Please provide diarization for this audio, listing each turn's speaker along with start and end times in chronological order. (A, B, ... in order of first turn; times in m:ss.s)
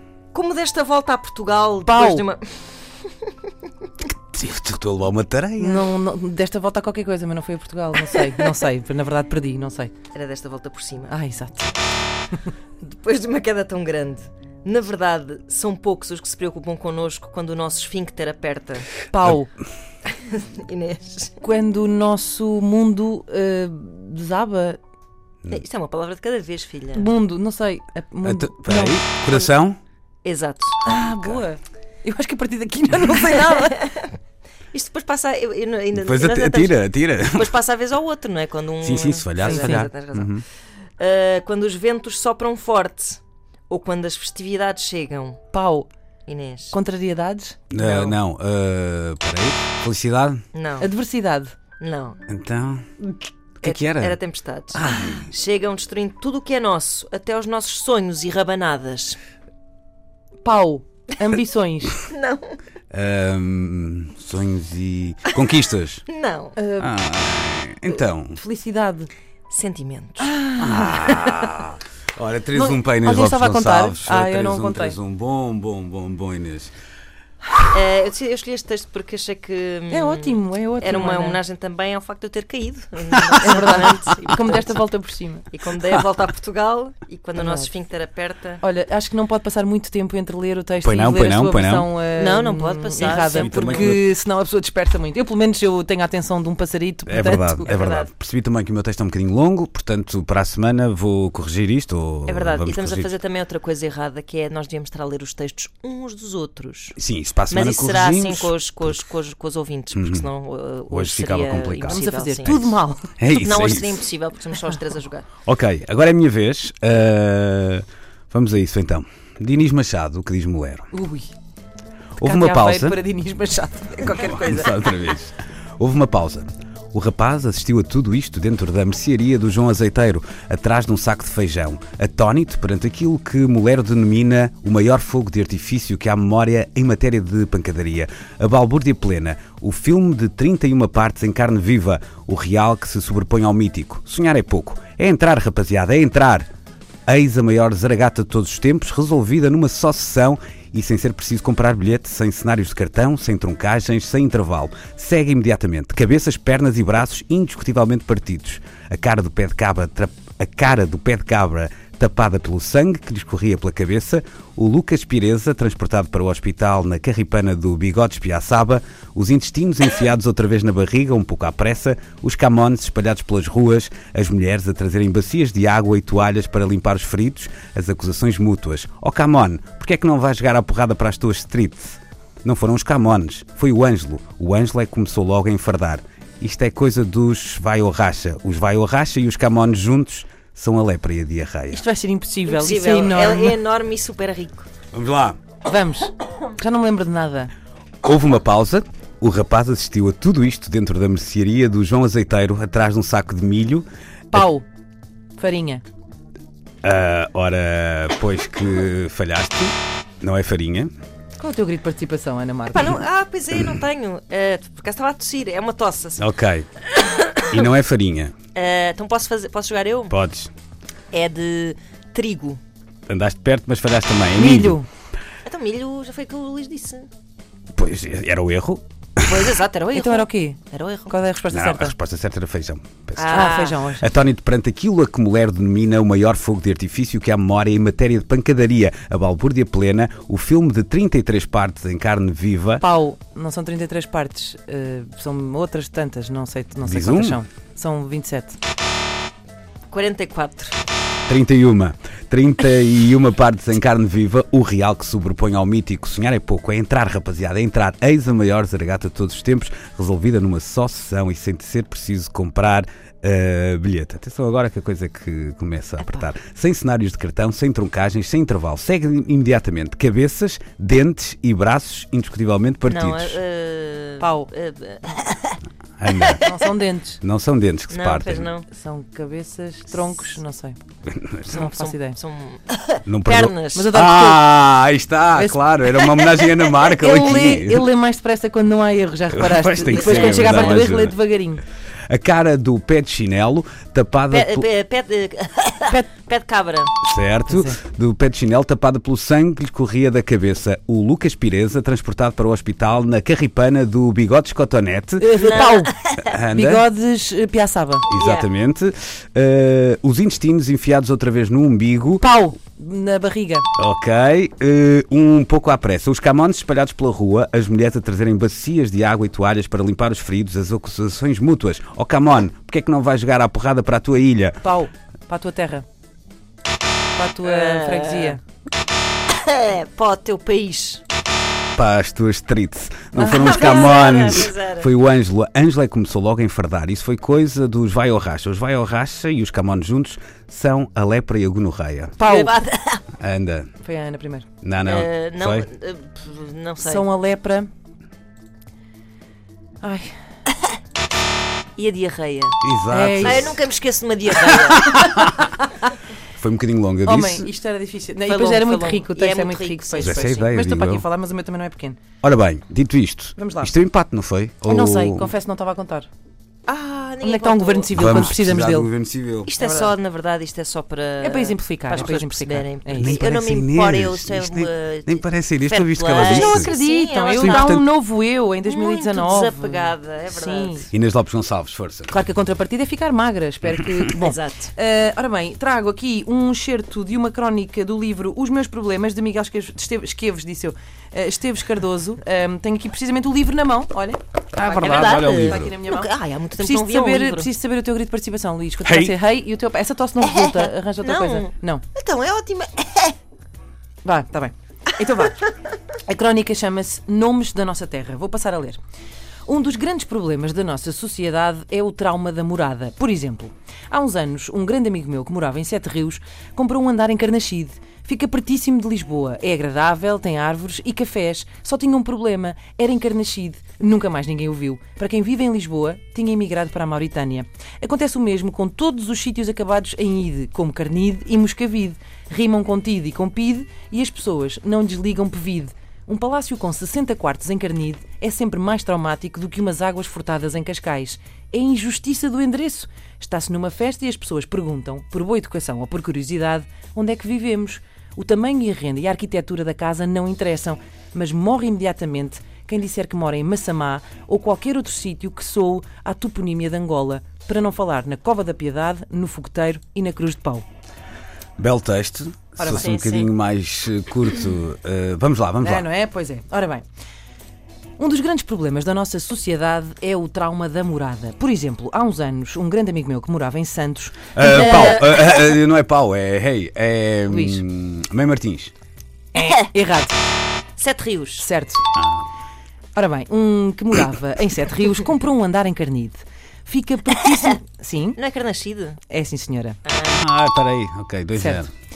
0:00.3-0:03.4 A
0:01.9-0:02.2 B
0:04.0-0:05.9 C
0:05.6-0:09.9 B
0:08.2-0:08.5 A
0:10.1-0:11.1 A
0:11.1-0:11.7 B
0:12.8-0:19.0 A
0:19.1-0:19.5 B
0:20.1-0:21.4 A
0:21.4-0:24.8 B
0:25.5-0:27.1 A
0:26.9-0:29.0 B
0:28.2-0:29.8 C
0:30.2-0:30.8 A
0:30.8-0:33.9 B
0:31.1-0:31.4 C
0:33.3-0:34.1 A
0:34.7-0:40.4 A
0:36.0-0:37.5 C
0:38.8-0:40.4 C
0:39.4-0:39.9 B
0:41.0-0:45.4 A
0:45.5-0:45.9 B
0:46.3-0:46.8 A
0:46.7-0:48.2 B
0:47.7-0:50.4 C
0:50.5-0:50.9 A
0:50.8-0:51.5 B
0:51.8-0:52.2 A
0:52.3-0:54.2 C
0:53.6-0:59.2 A
0:54.7-0:55.3 C
1:00.4-1:02.0 B
1:02.1-1:02.6 A
1:02.9-1:06.0 C
1:06.1-1:06.6 A
1:06.6-1:06.9 B
1:06.8-1:08.4 C
1:08.3-1:09.1 B
1:09.5-1:10.3 A
1:10.2-1:11.6 B
1:10.6-1:16.7 C
1:12.5-1:15.0 B
1:17.7-1:24.8 A
1:19.9-1:21.4 B
1:23.4-1:25.5 B
1:25.5-1:28.6 A
1:27.4-1:27.7 B
1:28.6-1:37.7 B
1:30.8-1:31.9 C
1:32.1-1:34.0 A
1:33.0-1:34.0 C
1:37.1-1:43.1 C
1:37.7-1:38.1 A
1:42.3-1:47.0 A
1:47.0-1:49.0 C
1:47.5-1:52.6 A
1:49.9-1:50.3 C
1:50.9-1:53.9 C
1:51.9-1:53.1 B
1:53.3-1:55.3 A
1:55.4-2:00.9 C
2:00.9-2:01.3 B
2:02.2-2:03.0 C
2:02.2-2:04.8 B
2:04.0-2:26.5 C
2:27.1-3:11.8 C
3:11.7-3:13.6 B
3:12.4-3:14.7 A
3:14.9-3:15.4 C
3:15.6-3:17.5 B
3:18.0-3:24.5 C
3:24.3-3:24.7 B
3:25.4-3:25.8 B
3:26.8-3:30.9 C
3:31.4-3:32.9 B
3:32.7-3:36.3 A
3:36.2-3:36.7 C
3:36.9-3:37.6 A
3:37.5-3:38.3 C
3:38.6-3:40.2 A
3:40.1-3:40.5 C
3:41.1-3:42.6 A
3:43.1-3:44.8 C
3:44.4-3:44.9 B
3:45.4-3:47.1 A
3:47.8-3:49.5 C
3:49.2-3:51.2 A
3:49.9-3:52.0 B
3:51.5-4:02.8 C
3:53.2-3:53.8 A
3:53.3-3:54.1 B
4:02.8-4:08.6 B
4:06.8-4:07.4 C
4:09.9-4:10.8 A
4:11.3-4:33.4 C
4:32.9-4:35.6 A
4:34.2-4:34.5 B
4:36.0-4:36.4 C
4:36.1-4:36.5 A
4:36.4-4:37.2 B
4:37.2-4:38.5 C
4:37.9-4:38.7 A
4:38.7-4:40.8 B
4:41.1-4:41.6 C
4:41.5-4:42.2 B
4:41.5-4:43.9 A
4:43.1-4:47.9 C
4:43.7-4:44.5 B
4:45.3-4:45.6 B
4:46.0-4:46.5 A
4:47.0-4:51.6 B
4:49.3-4:51.2 C
4:49.9-4:50.8 A
4:52.1-4:54.7 C
4:54.3-4:56.9 A
4:57.0-5:05.4 C
4:57.5-4:57.8 B
5:05.2-5:05.9 B
5:05.4-5:06.3 A
5:06.2-5:06.8 C
5:06.5-5:08.1 B
5:08.1-5:12.2 C
5:08.1-5:08.5 A
5:12.2-5:13.7 B
5:13.8-5:24.6 C
5:24.6-5:25.8 B
5:27.2-5:28.4 B
5:27.4-5:28.4 A
5:29.3-5:31.0 A
5:31.8-5:42.2 C
5:33.1-5:33.6 B
5:33.3-5:34.9 A
5:42.2-5:42.5 B
5:42.3-5:43.0 A
5:43.2-5:43.7 C
5:43.8-5:44.5 B
5:44.6-5:45.7 C
5:44.9-5:47.1 A
5:46.8-5:47.7 B
5:49.8-5:50.2 B
5:51.8-5:52.6 A
5:52.6-5:53.6 C
5:52.9-5:53.5 B
5:53.2-5:55.2 A
5:56.4-5:57.5 C
5:57.0-6:02.0 B
5:58.2-6:00.5 A
6:00.0-6:01.1 C
6:02.2-6:05.3 C
6:03.4-6:03.7 B
6:04.6-6:06.1 B
6:06.7-6:08.3 A
6:07.2-6:08.9 B
6:07.9-6:09.5 C
6:09.5-6:17.7 A
6:09.6-6:09.9 B
6:11.2-6:13.2 B
6:13.0-6:16.7 C
6:16.1-6:20.9 B
6:17.4-6:17.9 C
6:18.7-6:20.9 A
6:20.9-6:22.1 C
6:22.1-6:41.8 B
6:24.0-6:24.7 A
6:34.5-6:35.8 C
6:34.7-6:37.5 A
6:38.8-6:39.2 C
6:40.2-6:43.2 A
6:44.0-6:45.5 B
6:46.1-6:48.8 B
6:49.4-7:40.7 B
7:41.6-7:45.9 C
7:42.6-7:43.2 B
7:42.7-7:43.2 A
7:45.6-7:46.8 B
7:48.0-7:55.0 B
7:54.4-7:58.7 C
7:54.5-7:55.2 A
7:57.3-7:57.6 B
7:59.4-8:00.2 B
8:00.8-8:01.5 A
8:01.4-8:01.8 B
8:02.0-8:02.3 C
8:03.0-8:08.2 B
8:08.2-8:09.0 A
8:09.1-8:09.8 B
8:09.9-8:10.2 A
8:10.1-8:11.7 C
8:11.4-8:11.7 B